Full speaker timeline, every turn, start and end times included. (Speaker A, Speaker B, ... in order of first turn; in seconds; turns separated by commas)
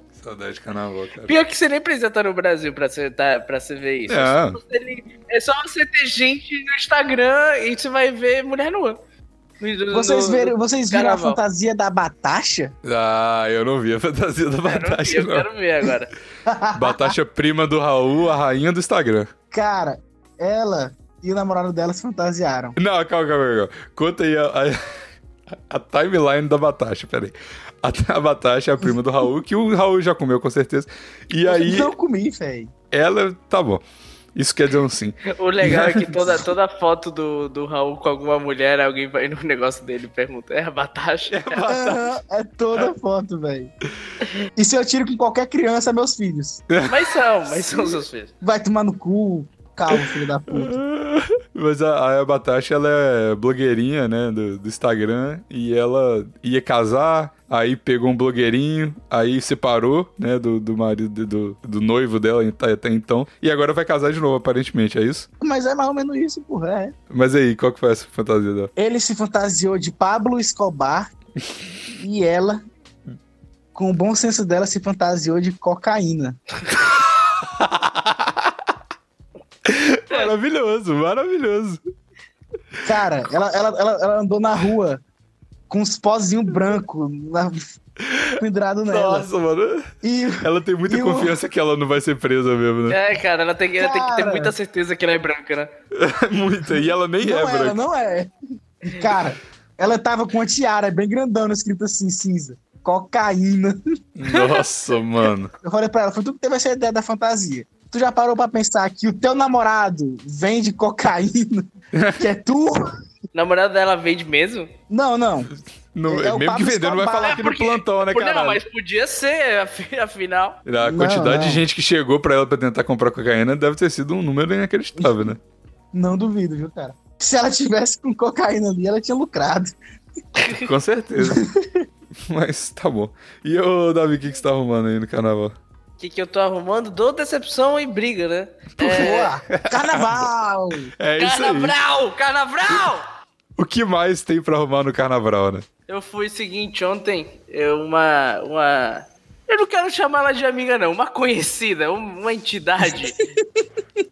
Speaker A: 0.2-1.4, Speaker B: 1.3-9.0, Speaker A: 4.1-4.6, Speaker B: 9.6-11.4, Speaker C: 9.9-12.7, Speaker A: 12.8-15.5, Speaker B: 14.7-16.1, Speaker C: 16.5-17.1, Speaker A: 16.7-19.3, Speaker C: 19.5-22.8, Speaker A: 22.8-24.8, Speaker A: 25.5-31.9, Speaker C: 31.4-32.7, Speaker A: 32.9-33.8, Speaker A: 34.4-36.4, Speaker B: 35.3-41.6, Speaker A: 41.3-42.1, Speaker C: 41.7-43.7, Speaker C: 44.6-46.6, Speaker A: 46.7-47.0, Speaker B: 46.9-48.3, Speaker A: 47.5-47.9, Speaker C: 48.4-50.8, Speaker A: 49.9-65.3, Speaker C: 65.4-67.0, Speaker A: 67.1-68.7, Speaker C: 68.8-71.1, Speaker C: 71.9-72.6, Speaker C: 73.8-76.4, Speaker A: 77.4-78.6, Speaker A: 79.7-81.8, Speaker C: 82.8-85.0, Speaker C: 85.7-87.6, Speaker A: 88.0-93.0, Speaker C: 88.4-89.3, Speaker C: 90.0-91.4, Speaker B: 92.9-95.7, Speaker C: 93.8-94.5, Speaker A: 95.9-97.8, Speaker C: 97.2-98.3, Speaker C: 98.8-103.8, Speaker A: 104.2-105.5, Speaker B: 104.3-104.6, Speaker C: 105.6-111.7, Speaker A: 111.9-112.2, Speaker C: 112.2-112.9, Speaker B: 113.3-114.7, Speaker C: 114.9-115.5, Speaker A: 115.9-118.6, Speaker C: 116.1-117.5, Speaker B: 117.2-120.6, Speaker A: 120.7-125.4, Speaker C: 120.8-121.6, Speaker C: 125.9-129.8, Speaker B: 130.4-130.7, Speaker A: 130.5-131.5, Speaker C: 131.2-131.8, Speaker A: 132.3-135.6, Speaker B: 136.0-139.3, Speaker A: 138.8-140.3, Speaker C: 138.8-140.9, Speaker A: 141.0-141.8, Speaker B: 141.2-143.1, Speaker A: 143.6-145.7, Speaker B: 145.9-153.2, Speaker C: 153.4-153.7